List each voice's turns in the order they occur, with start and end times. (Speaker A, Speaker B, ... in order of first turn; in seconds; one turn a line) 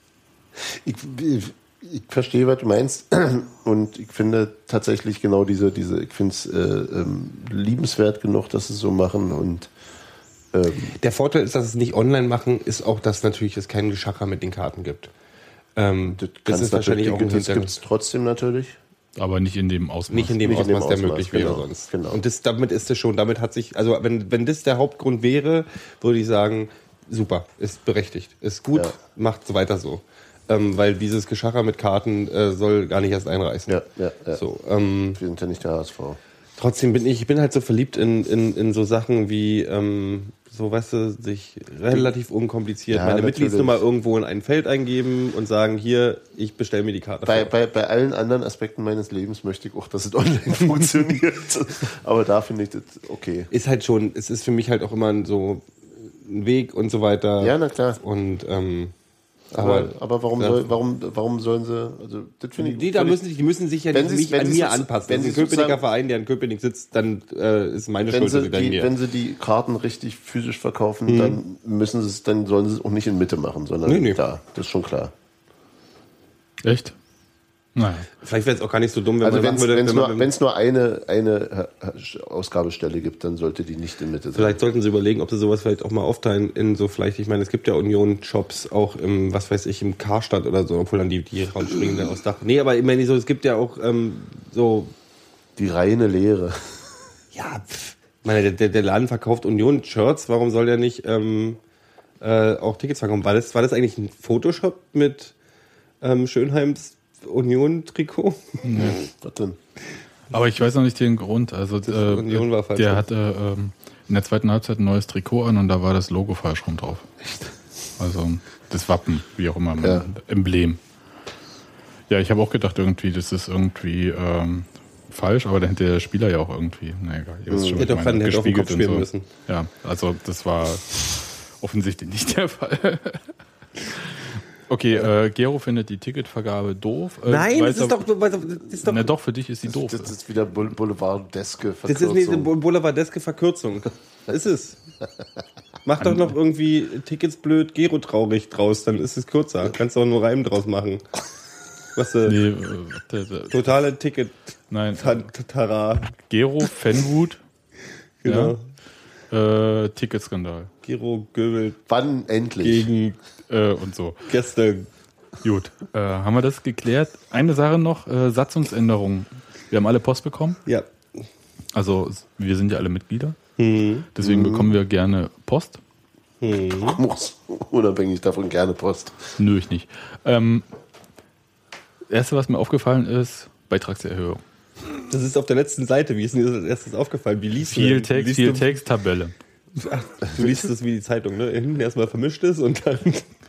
Speaker A: 0.6-9.7
Speaker A: 10.5-10.9
Speaker B: 10.9-15.1
Speaker B: 15.8-17.8
Speaker A: 16.1-18.8
Speaker C: 19.2-20.4
Speaker B: 20.1-33.8
Speaker A: 20.4-22.2
Speaker A: 33.7-34.4
Speaker B: 34.3-35.2
Speaker A: 35.2-36.2
Speaker B: 36.6-47.5
Speaker A: 42.9-43.8
Speaker A: 47.3-53.5
Speaker B: 53.5-58.9
Speaker A: 57.4-58.0
Speaker A: 59.5-63.2
Speaker B: 59.5-60.7
Speaker B: 62.6-68.9
Speaker A: 63.9-65.8
Speaker A: 68.1-75.1
Speaker B: 71.1-71.4
Speaker B: 73.9-74.2
Speaker C: 76.6-77.0
Speaker C: 77.8-78.1
Speaker B: 78.2-80.3
Speaker A: 79.2-84.6
Speaker B: 84.3-94.9
Speaker A: 95.6-96.8
Speaker B: 97.3-101.6
Speaker B: 102.2-105.3
Speaker B: 106.0-108.8
Speaker C: 108.6-109.0
Speaker A: 109.0-109.6
Speaker C: 110.3-117.1
Speaker B: 111.9-113.1
Speaker A: 117.2-117.5
Speaker C: 118.0-120.8
Speaker A: 119.8-120.1
Speaker C: 122.1-133.3
Speaker A: 127.5-127.9
Speaker B: 127.8-129.3
Speaker C: 133.8-138.0
Speaker B: 137.3-139.1
Speaker C: 138.8-140.1
Speaker A: 139.7-142.5
Speaker B: 141.9-144.8
Speaker B: 145.8-151.1
Speaker C: 146.0-146.3
Speaker B: 151.9-152.4
Speaker C: 152.2-153.6
Speaker B: 153.5-154.4
Speaker C: 154.7-155.3
Speaker B: 154.9-156.1
Speaker C: 156.2-157.4
Speaker B: 158.2-158.6
Speaker C: 158.2-158.6
Speaker C: 159.3-160.7
Speaker B: 160.8-161.8
Speaker A: 161.9-162.9
Speaker B: 162.6-163.2
Speaker C: 163.5-164.3
Speaker B: 164.3-164.9
Speaker C: 165.4-170.6
Speaker B: 170.7-171.2
Speaker C: 171.7-173.4
Speaker B: 173.6-174.1
Speaker C: 174.2-175.8
Speaker A: 174.2-174.8
Speaker B: 176.4-177.0
Speaker A: 176.8-179.3
Speaker C: 179.4-180.7
Speaker C: 182.1-184.4
Speaker B: 185.1-188.8
Speaker C: 187.7-189.3
Speaker B: 189.8-193.3